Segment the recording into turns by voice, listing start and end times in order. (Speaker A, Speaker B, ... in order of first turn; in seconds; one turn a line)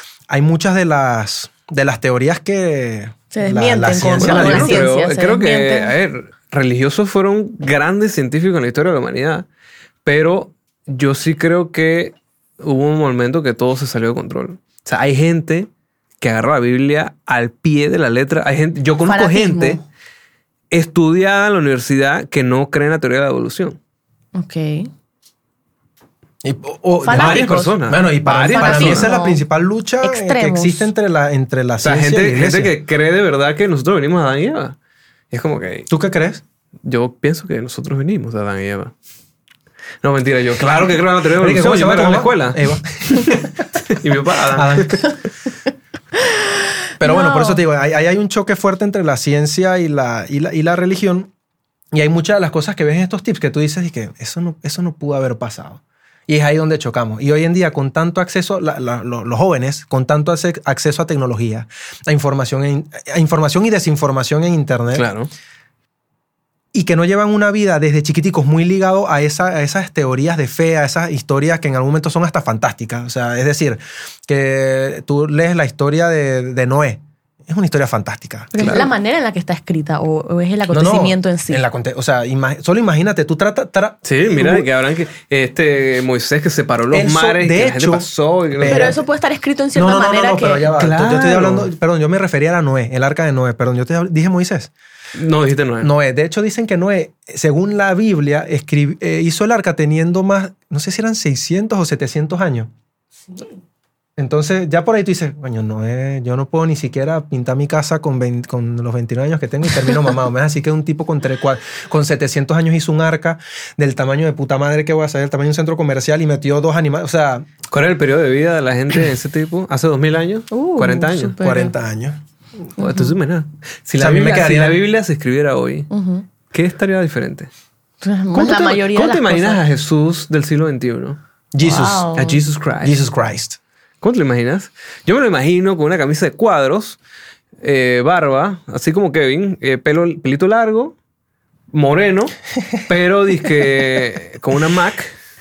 Speaker A: 0.3-4.8
Speaker B: 3.3-5.9
Speaker C: 4.2-9.4
Speaker C: 10.0-15.7
Speaker C: 16.2-19.8
Speaker B: 19.1-19.8
Speaker C: 20.7-23.8
Speaker B: 24.3-24.9
Speaker A: 26.4-32.7
Speaker B: 27.0-27.7
Speaker C: 27.1-29.1
Speaker B: 28.4-29.4
Speaker B: 30.0-30.9
Speaker C: 31.8-34.8
Speaker C: 35.3-35.9
Speaker A: 35.9-36.4
Speaker C: 36.8-38.9
Speaker C: 40.0-45.0
Speaker A: 41.4-43.6
Speaker A: 44.5-45.1
Speaker B: 46.2-47.6
Speaker A: 47.0-51.3
Speaker A: 51.9-65.1
Speaker C: 64.9-65.3
Speaker A: 66.7-78.8
Speaker B: 78.5-81.6
Speaker C: 78.6-78.9
Speaker A: 80.7-84.7
Speaker C: 84.0-89.0
Speaker A: 86.9-89.0
Speaker B: 88.7-90.7
Speaker A: 89.7-94.7
Speaker C: 90.8-91.7
Speaker C: 95.1-95.9
Speaker A: 95.8-102.7
Speaker A: 104.2-117.5
Speaker C: 117.7-121.4
Speaker B: 120.5-121.7
Speaker A: 121.4-122.2
Speaker C: 122.8-125.9
Speaker B: 122.8-123.1
Speaker A: 124.0-124.8
Speaker B: 125.9-126.2
Speaker C: 126.5-127.5
Speaker B: 128.0-129.6
Speaker C: 128.3-131.2
Speaker A: 131.5-132.1
Speaker B: 131.6-132.4
Speaker C: 132.1-133.0
Speaker A: 132.8-133.6
Speaker C: 134.0-137.0
Speaker C: 137.6-140.9
Speaker C: 141.7-142.3
Speaker C: 142.9-145.1